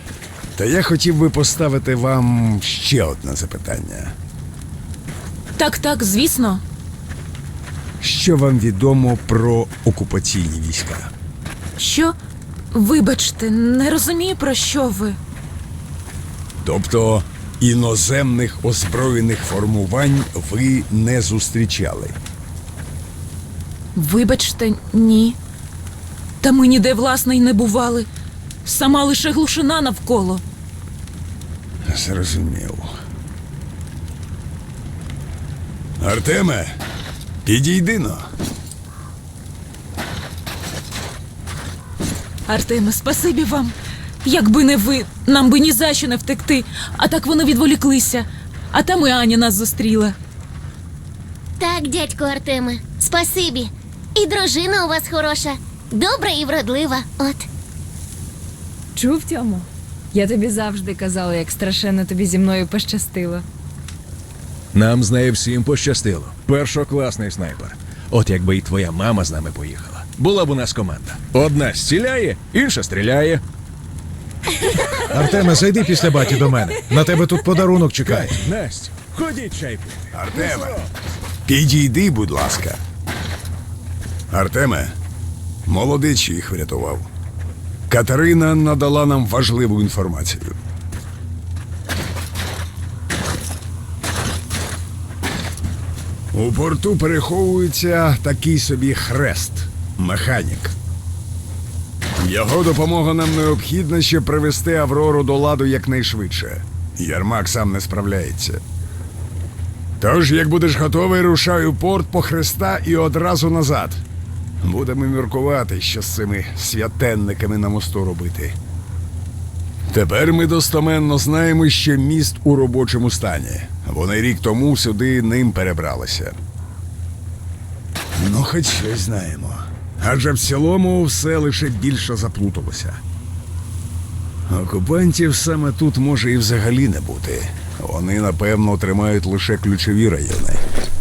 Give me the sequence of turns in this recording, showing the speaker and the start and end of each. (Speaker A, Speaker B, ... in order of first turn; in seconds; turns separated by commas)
Speaker A: 0.6-4.1, Speaker B: 5.5-6.6, Speaker A: 8.0-11.1, Speaker B: 11.8-12.2, Speaker B: 12.7-15.2, Speaker A: 16.6-22.2, Speaker B: 23.9-25.4, Speaker B: 26.4-28.1, Speaker B: 28.6-30.4, Speaker A: 31.9-32.9, Speaker A: 36.0-36.8, Speaker A: 37.5-38.3, Speaker B: 42.5-50.2, Speaker C: 51.6-57.5, Speaker D: 59.0-63.4, Speaker E: 64.7-73.4, Speaker F: 75.1-78.4, Speaker E: 78.0-80.9, Speaker A: 80.1-80.8, Speaker A: 81.5-82.8, Speaker A: 84.3-84.9, Speaker A: 85.7-87.1, Speaker A: 87.9-90.5, Speaker A: 96.3-100.8, Speaker A: 102.2-108.6, Speaker A: 110.0-114.0, Speaker A: 114.6-118.5, Speaker A: 119.9-126.4, Speaker A: 128.2-133.0, Speaker A: 134.5-140.6